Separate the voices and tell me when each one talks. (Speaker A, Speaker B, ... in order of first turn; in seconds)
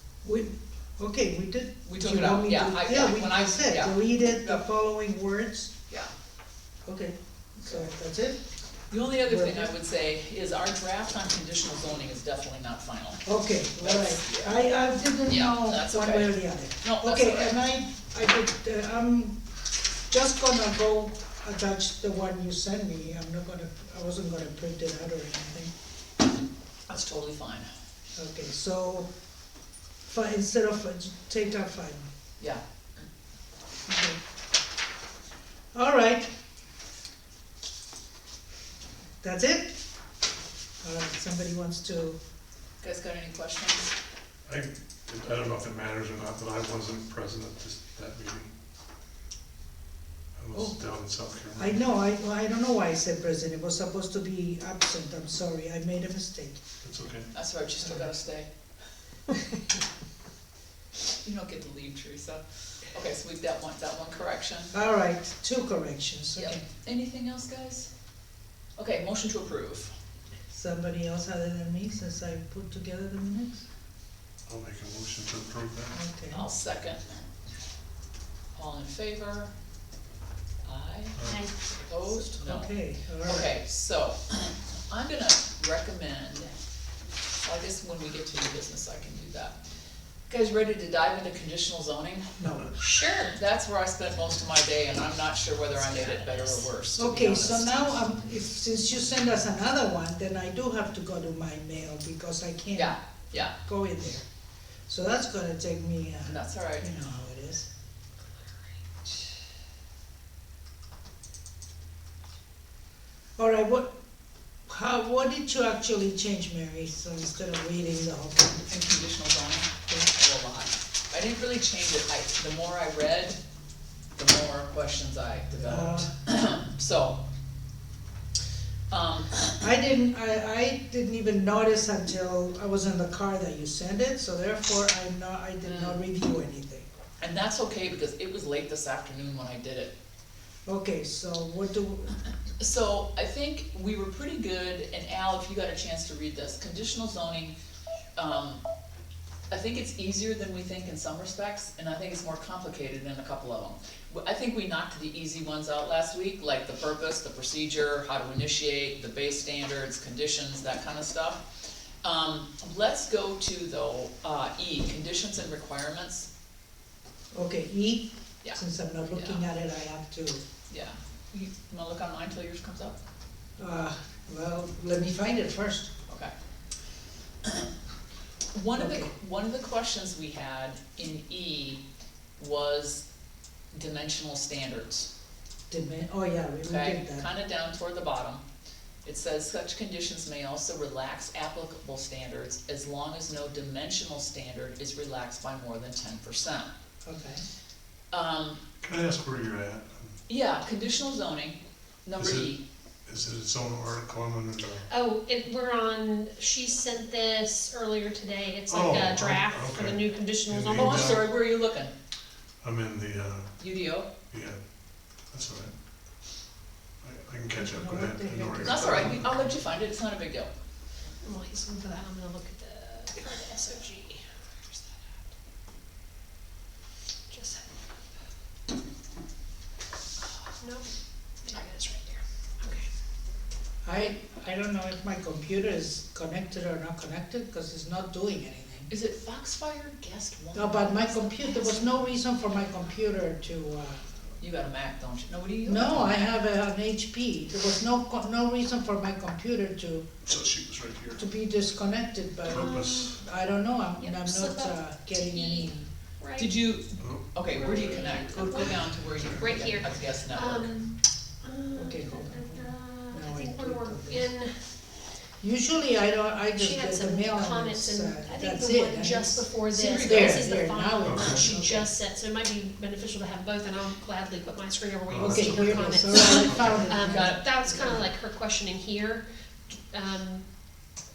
Speaker A: 0.2-5.7, 6.8-8.4, 9.3-9.7, 13.2-19.4, 20.1-25.7, 28.1-29.1, 30.0-32.1, 33.9-34.2, 35.7-36.3, 39.2-39.8, 40.8-42.2, 50.5-50.8, 51.6-56.6, 64.7-66.6, 70.5-73.7, 75.9-76.4, 82.1-83.5, 92.4-92.7, 97.0-104.2, 104.9-107.7, 113.4-114.0, 114.7-118.7, 125.6-126.1, 129.6-136.8, 140.7-142.2, 167.3-170.4, 173.6-175.9, 178.8-179.1, 185.7-187.2, 197.0-197.4, 217.5-219.6, 233.8-238.9, 240.5-244.0, 245.6-250.1, 251.2-255.9, 261.7-264.3, 265.4-271.9, 275.1-278.0
Speaker B: 1.8-4.6, 7.6-7.9, 8.9-13.2, 13.8-14.6, 15.2-17.6, 26.9-27.7, 32.4-33.0, 42.8-43.9, 57.3-58.5, 61.1-64.7, 66.3-67.9, 68.8-69.9, 76.3-77.2, 78.5-79.5, 80.6-86.5, 87.4-89.5, 90.3-92.4, 93.3-97.8, 102.7-103.5, 106.2-106.9, 118.7-123.4, 124.1-127.2, 128.9-129.5, 135.6-136.0, 137.2-139.9, 142.6-147.5, 148.2-148.6, 149.5-166.3, 168.4-169.5, 170.7-173.0, 176.1-176.3, 178.5-181.8, 182.4-183.0, 183.7-185.1, 186.6-188.4, 189.0-196.7, 198.1-198.6, 200.3-202.6, 210.8-211.9, 213.6-214.1, 218.6-220.5, 238.9-242.1, 244.4-246.3, 256.4-260.7, 269.7-270.4, 277.0-277.6
Speaker C: 44.5-48.5, 50.4-51.8, 56.8-57.3, 74.5-76.0, 81.2-81.5, 198.8-200.2, 202.2-202.5, 203.1-204.8, 208.7-211.2, 212.6-213.5, 214.3-214.6, 215.3-215.7, 217.0-219.6, 250.2-251.2, 252.5-253.2, 257.0-257.2, 271.0-271.5, 275.1-276.9
Speaker D: 81.2-81.5, 92.8-93.3, 95.8-96.6, 204.9-211.2, 221.2-225.0, 227.3-227.7, 230.6-230.9, 231.4-232.8, 252.5-253.2, 254.0-256.6, 257.5-264.5, 266.6-280.4